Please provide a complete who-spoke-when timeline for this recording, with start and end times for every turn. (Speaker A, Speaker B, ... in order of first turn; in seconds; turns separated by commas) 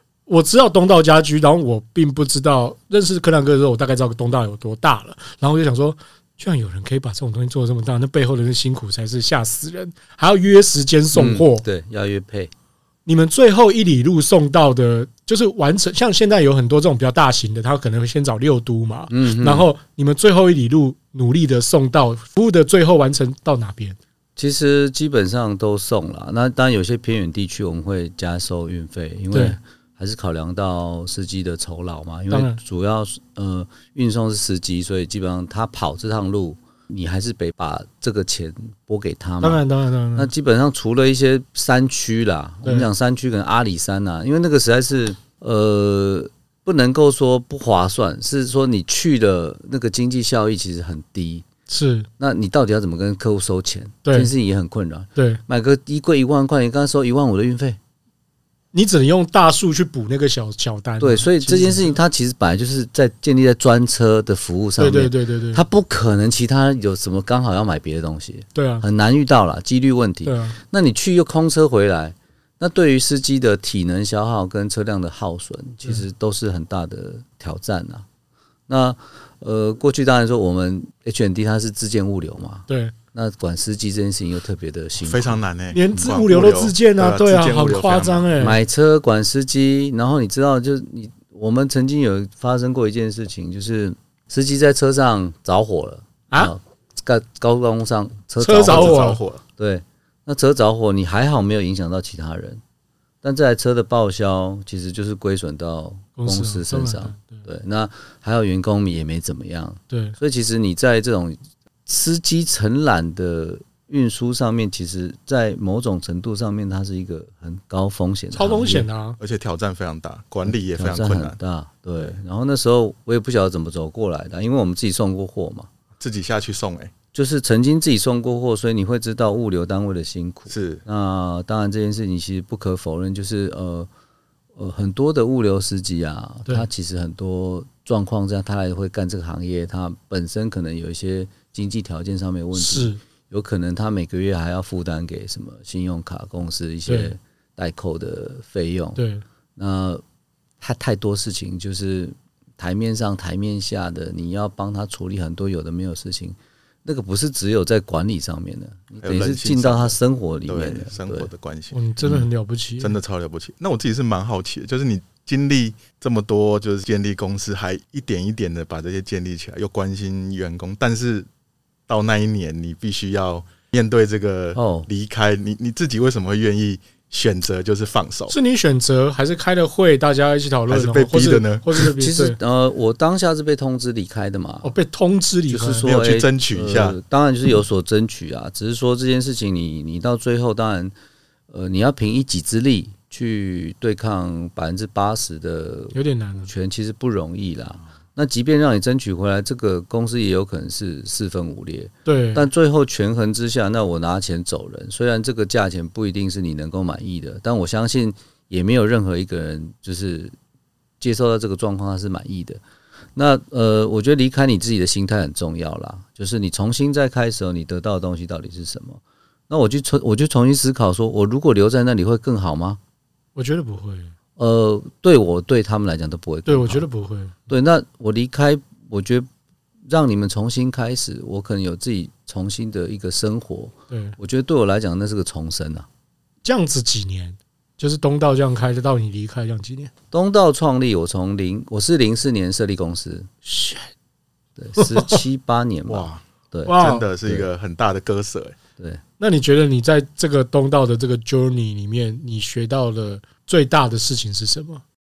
Speaker A: 0.3-11.7, Speaker B: 11.1-12.5, Speaker A: 13.1-24.0, Speaker B: 19.1-19.7, Speaker B: 24.4-39.6, Speaker A: 29.3-29.6, Speaker A: 32.3-32.6, Speaker A: 39.4-40.3, Speaker B: 40.1-51.5, Speaker A: 51.7-52.1, Speaker B: 52.2-57.8, Speaker A: 54.1-54.3, Speaker A: 55.2-55.4, Speaker A: 58.7-62.0, Speaker B: 61.0-78.1, Speaker A: 64.8-65.6, Speaker A: 68.5-68.8, Speaker A: 70.2-70.6, Speaker B: 78.7-85.4, Speaker A: 82.7-82.9, Speaker C: 85.0-88.3, Speaker A: 85.7-88.6, Speaker B: 88.4-102.6, Speaker A: 98.4-99.2, Speaker C: 98.7-99.4, Speaker B: 103.2-118.9, Speaker A: 106.2-107.4, Speaker A: 109.9-110.2, Speaker A: 118.3-119.2, Speaker C: 119.2-121.4, Speaker B: 120.5-125.7, Speaker C: 126.0-126.9, Speaker B: 127.1-133.9, Speaker C: 130.5-130.8, Speaker B: 134.6-149.0, Speaker A: 142.5-143.0, Speaker A: 146.9-147.1, Speaker A: 149.0-149.2, Speaker B: 149.6-150.0, Speaker B: 150.6-161.3, Speaker C: 159.0-162.3, Speaker A: 161.7-163.0, Speaker C: 162.8-171.3, Speaker C: 171.9-178.3, Speaker B: 174.6-174.9, Speaker A: 178.3-182.4, Speaker C: 180.7-181.9, Speaker B: 182.0-184.7, Speaker A: 184.6-185.9, Speaker B: 185.5-190.9, Speaker C: 185.8-187.0, Speaker B: 191.5-210.4, Speaker A: 195.9-196.5, Speaker A: 202.1-202.5, Speaker B: 211.0-212.6, Speaker B: 213.2-222.8, Speaker A: 223.4-224.1, Speaker B: 224.4-226.9, Speaker A: 226.5-227.4, Speaker B: 227.5-229.3, Speaker B: 229.9-235.9, Speaker A: 233.9-234.2, Speaker A: 236.4-239.9, Speaker B: 240.1-243.3, Speaker A: 243.5-243.9, Speaker B: 244.6-247.5, Speaker A: 244.8-245.2, Speaker C: 245.9-248.6, Speaker A: 246.7-247.1, Speaker A: 249.2-254.8